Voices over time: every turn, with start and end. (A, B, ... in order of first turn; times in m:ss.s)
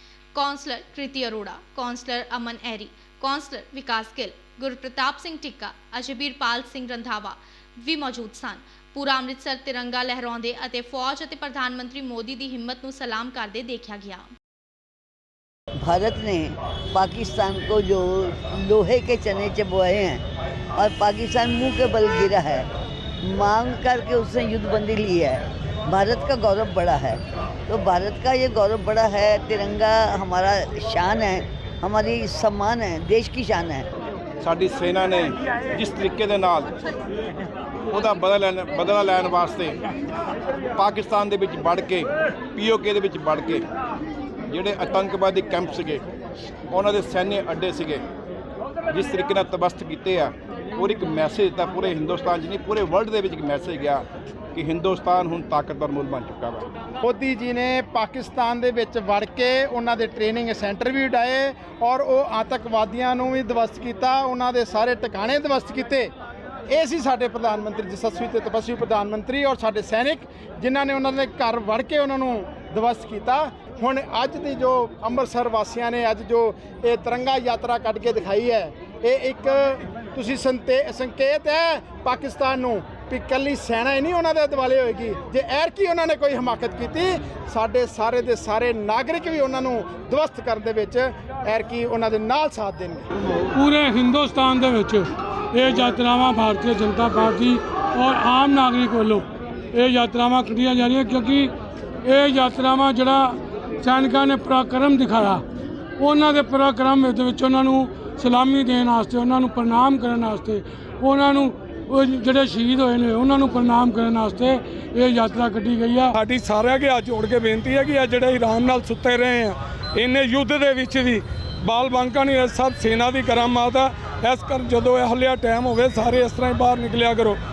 0:00.3-0:14.2 A
0:15.8-0:20.2 B
0:20.7-0:22.7 B
0:23.2-0:33.9 B
0:34.4-0:36.7 C
0:37.9-0:39.8 C
0:40.8-0:43.6 C
0:44.5-0:46.0 C
0:46.7-0:48.0 C
0:48.9-0:54.0 C
0:54.5-0:56.7 C
0:57.0-1:06.1 D
1:06.7-1:33.1 D
1:33.5-1:41.5 E
1:42.0-1:45.4 E
1:46.0-1:56.1 E
1:56.2-2:07.4 F